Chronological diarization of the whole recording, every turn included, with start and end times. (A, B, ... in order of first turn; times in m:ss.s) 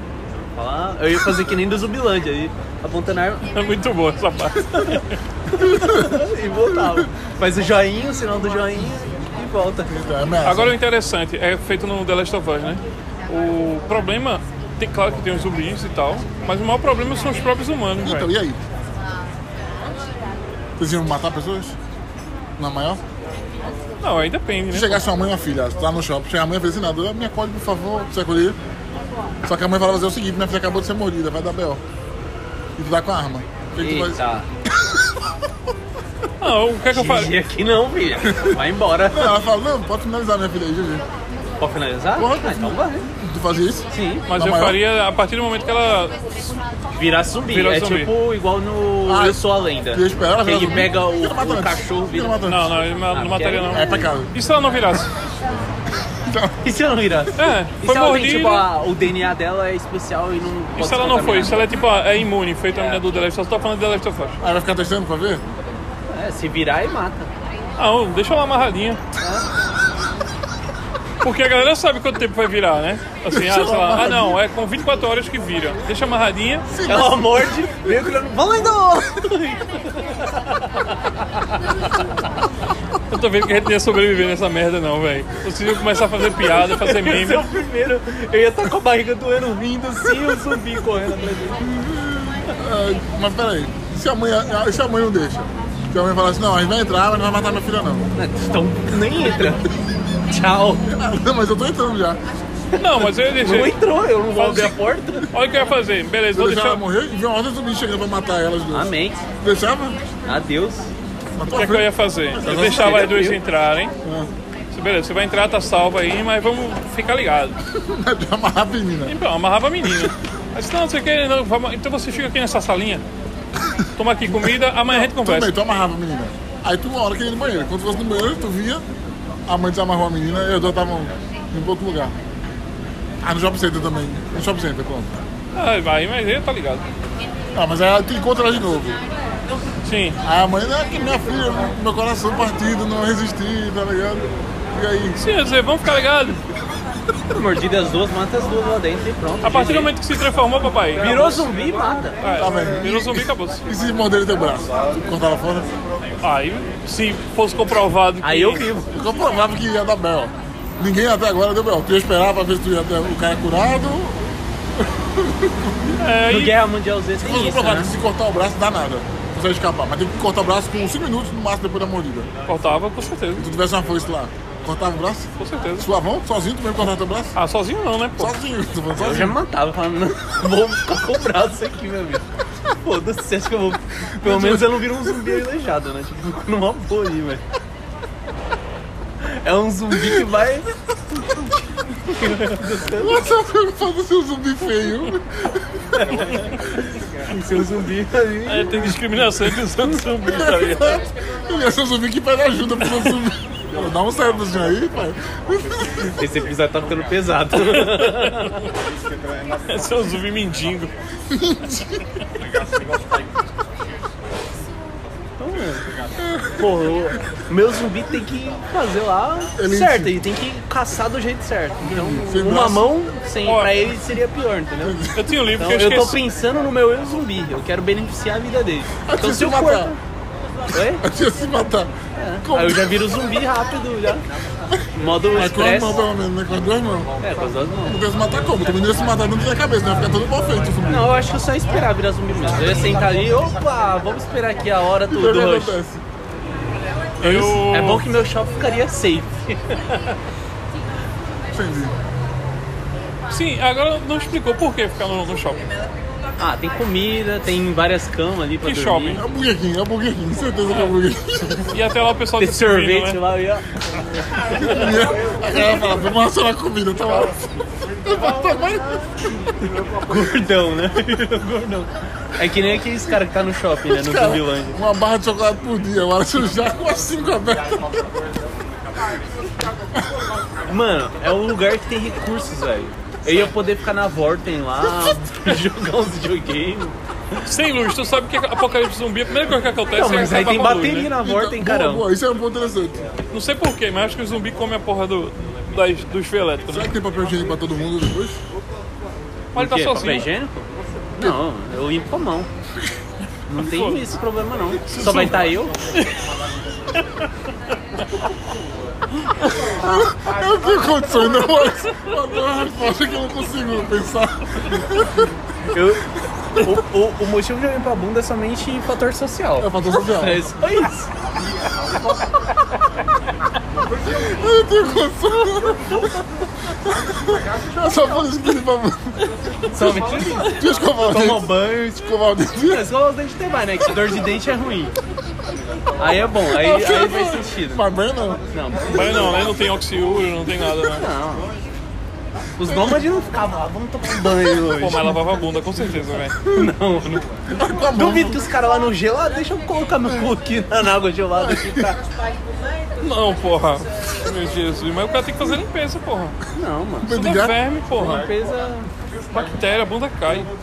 0:00.6-0:03.5 A
0:03.5-0:05.2 B
0:04.7-0:09.9 A
0:05.6-0:06.2 C
0:09.9-0:10.8 C
0:10.4-0:18.3 B
0:18.0-0:18.6 C
0:20.8-0:21.8 C
0:22.6-0:23.0 C
0:24.0-0:25.0 B
0:24.7-0:28.6 C
0:29.4-0:31.8 C
0:32.8-0:34.2 C
0:33.8-0:34.5 A
0:36.4-0:37.3 B
0:36.9-0:39.4 A
0:39.1-0:41.0 C
0:41.6-0:43.0 A
0:42.2-0:44.8 C
0:43.9-0:44.3 A
0:44.2-0:46.2 B
0:47.0-0:52.5 A
0:47.5-0:48.1 B
0:49.1-0:49.4 C
0:49.9-0:52.7 C
0:52.4-0:55.1 B
0:53.1-0:54.1 A
0:53.7-0:54.3 C
0:56.3-0:56.6 C
0:56.6-1:01.7 A
0:57.4-0:58.7 B
1:00.8-1:04.4 B
1:02.7-1:03.0 A
1:04.4-1:05.4 C
1:06.1-1:07.3 A
1:07.8-1:09.0 B
1:09.2-1:09.5 A
1:11.2-1:16.7 B
1:13.3-1:14.4 C
1:16.7-1:17.5 C
1:16.8-1:21.6 A
1:23.1-1:27.5 B
1:26.5-1:31.8 A
1:31.9-1:38.1 C
1:38.2-1:39.7 A
1:40.3-1:40.8 A
1:40.8-1:42.2 C
1:42.8-1:43.8 B
1:43.3-1:45.3 A
1:44.3-1:44.8 B
1:45.3-1:46.8 B
1:46.3-1:48.9 C
1:48.7-1:49.2 A
1:49.4-1:50.0 C
1:50.2-1:50.9 A
1:51.4-1:53.0 C
1:51.5-1:53.9 B
1:52.6-1:53.4 A
1:54.7-1:57.6 B
1:57.7-1:59.2 C
1:59.1-2:03.0 B
2:03.7-2:08.8 C
2:04.0-2:05.5 B
2:09.5-2:12.2 C
2:13.2-2:15.2 C
2:15.5-2:16.8 B
2:17.6-2:19.0 C
2:19.8-2:20.2 B
2:20.2-2:25.2 C
2:25.2-2:26.4 B
2:27.3-2:29.9 A
2:29.4-2:31.5 B
2:31.0-2:32.2 A
2:32.2-2:33.6 B
2:32.4-2:35.7 C
2:36.2-2:38.7 B
2:38.2-2:39.0 A
2:38.9-2:44.2 C
2:45.2-2:45.8 C
2:46.0-2:46.6 B
2:46.3-2:47.9 A
2:47.2-2:52.3 C
2:52.5-2:53.5 B
2:53.4-2:57.4 C
2:55.4-2:55.9 B
2:57.4-2:58.4 B
2:58.2-2:59.4 C
2:59.0-3:02.3 A
3:02.8-3:07.4 A
3:04.3-3:04.7 C
3:09.2-3:13.3 A
3:12.9-3:16.0 C
3:16.0-3:20.0 A
3:18.5-3:21.0 B
3:20.3-3:26.0 C
3:26.2-3:28.7 A
3:27.5-3:28.6 B
3:29.7-3:30.9 B
3:31.3-3:32.0 C
3:35.4-3:35.8 A
3:36.2-3:36.6 C
3:36.6-3:45.0 A
3:39.6-3:40.2 C
3:41.8-3:42.9 C
3:43.5-3:43.7 B
3:44.8-3:45.4 C
3:45.2-3:46.2 B
3:45.6-3:50.0 A
3:49.1-3:50.0 C
3:50.7-3:51.0 A
3:50.9-3:51.9 C
3:52.2-3:54.3 A
3:52.4-3:53.0 C
3:54.9-3:56.0 A
3:55.3-3:57.1 C
3:57.2-3:58.0 A
3:57.9-4:01.1 C
4:00.9-4:05.8 A
4:05.1-4:06.0 C
4:07.2-4:08.0 B
4:07.2-4:10.1 A
4:11.5-4:12.0 C
4:13.3-4:15.7 B
4:16.4-4:19.2 A
4:18.6-4:19.2 B
4:19.2-4:21.7 C
4:21.7-4:23.2 B
4:22.4-4:23.6 A
4:24.6-4:29.0 C
4:24.6-4:24.8 A
4:30.1-4:34.8 A
4:33.9-4:38.1 C
4:40.7-4:47.0 A
4:47.4-4:51.2 B
4:49.9-4:52.1 A
4:51.2-4:53.1 C
4:53.3-4:56.9 B
4:56.7-4:58.4 C
4:59.6-5:00.3 B
4:59.6-5:02.5 A
5:03.5-5:05.7 A
5:03.6-5:04.0 B
5:04.9-5:06.0 B
5:09.7-5:15.3 C
5:15.7-5:21.1 A
5:19.6-5:20.4 C
5:24.1-5:26.0 C
5:26.9-5:29.2 C
5:29.7-5:34.9 A
5:29.8-5:32.9 C
5:36.0-5:37.8 A
5:36.4-5:38.4 C
5:38.5-5:39.4 A
5:38.9-5:41.1 B
5:40.8-5:41.5 A
5:42.6-5:45.1 A
5:42.7-5:43.0 C
5:44.6-5:46.4 B
5:46.5-5:46.7 C
5:46.5-5:47.3 A
5:47.5-5:48.4 C
5:47.9-5:52.0 A
5:51.4-5:51.9 C
5:53.0-5:56.4 B
5:56.6-5:57.1 A
5:57.0-5:57.6 C
5:57.1-5:58.3 B
5:58.0-5:58.9 A
5:59.3-6:00.5 B